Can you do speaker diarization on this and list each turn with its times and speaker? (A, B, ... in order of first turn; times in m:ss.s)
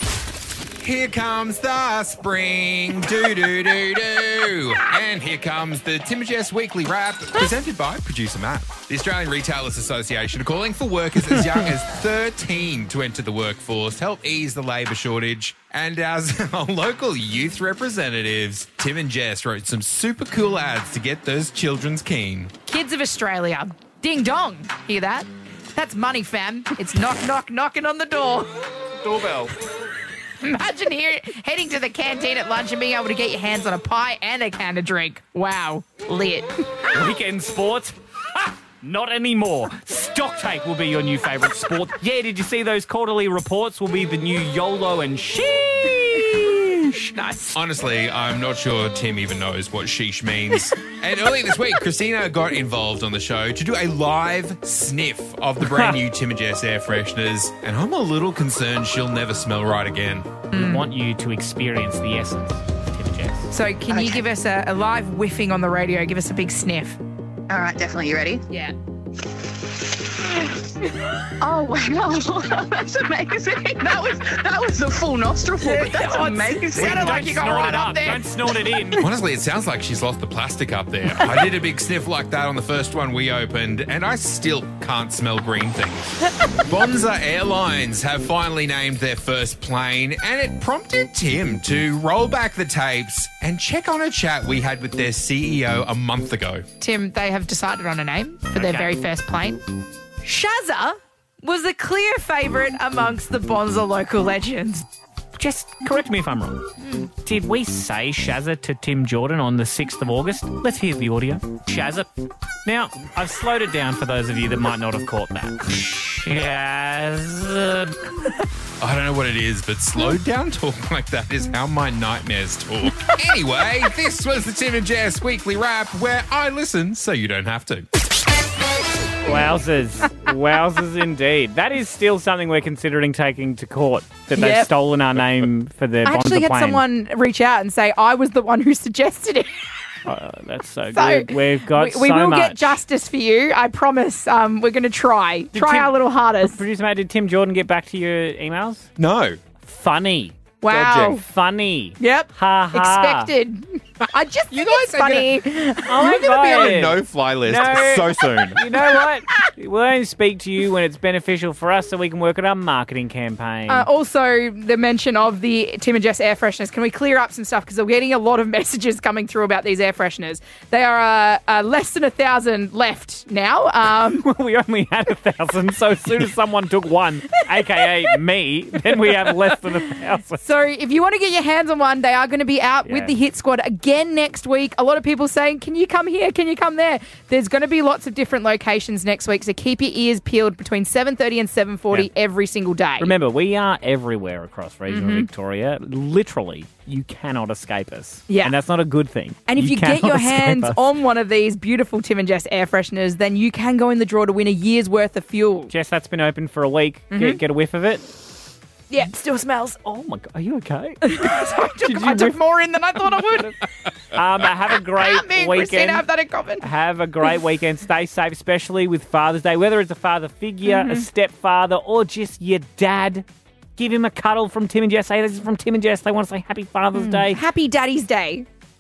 0:00.8-0:22.5 A
0:22.7-0:28.5 B
0:29.0-0:29.5 C
0:30.4-0:36.7 B
0:36.9-0:47.1 C
0:47.2-0:47.5 B
0:47.5-1:00.3 A
0:55.6-0:55.9 C
1:00.5-1:00.8 B
1:00.5-1:03.5 C
1:03.5-1:07.0 B
1:03.9-1:04.2 D
1:07.5-1:08.4 D
1:11.4-1:17.5 D
1:15.6-1:18.2 B
1:16.7-1:19.1 C
1:19.0-1:36.6 A
1:36.8-1:39.6 B
1:38.5-1:38.9 C
1:40.2-1:44.8 B
1:45.4-1:46.7 C
1:47.2-1:52.1 C
1:52.6-1:58.0 C
1:58.8-2:07.9 A
2:09.2-2:16.8 C
2:14.3-2:14.7 B
2:16.0-2:19.5 B
2:20.0-2:22.8 C
2:20.9-2:26.6 B
2:25.5-2:28.9 C
2:29.0-2:29.4 A
2:29.6-2:33.3 C
2:30.6-2:31.2 B
2:32.0-2:36.3 B
2:34.5-2:35.3 A
2:35.9-2:43.9 C
2:36.0-2:38.9 A
2:43.7-2:54.2 B
2:54.1-3:00.4 C
3:00.4-3:13.1 B
3:02.8-3:03.1 C
3:13.0-3:20.8 C
3:14.9-3:15.3 B
3:18.3-3:18.5 B
3:19.5-3:25.7 B
3:25.7-3:28.0 C
3:27.1-3:27.4 B
3:28.9-3:29.8 B
3:29.8-3:32.4 C
3:31.0-3:33.6 B
3:33.2-3:33.5 C
3:34.1-3:36.0 C
3:35.0-3:36.6 B
3:36.6-3:43.2 C
3:40.6-3:41.0 B
3:43.8-3:47.4 C
3:47.0-3:48.5 B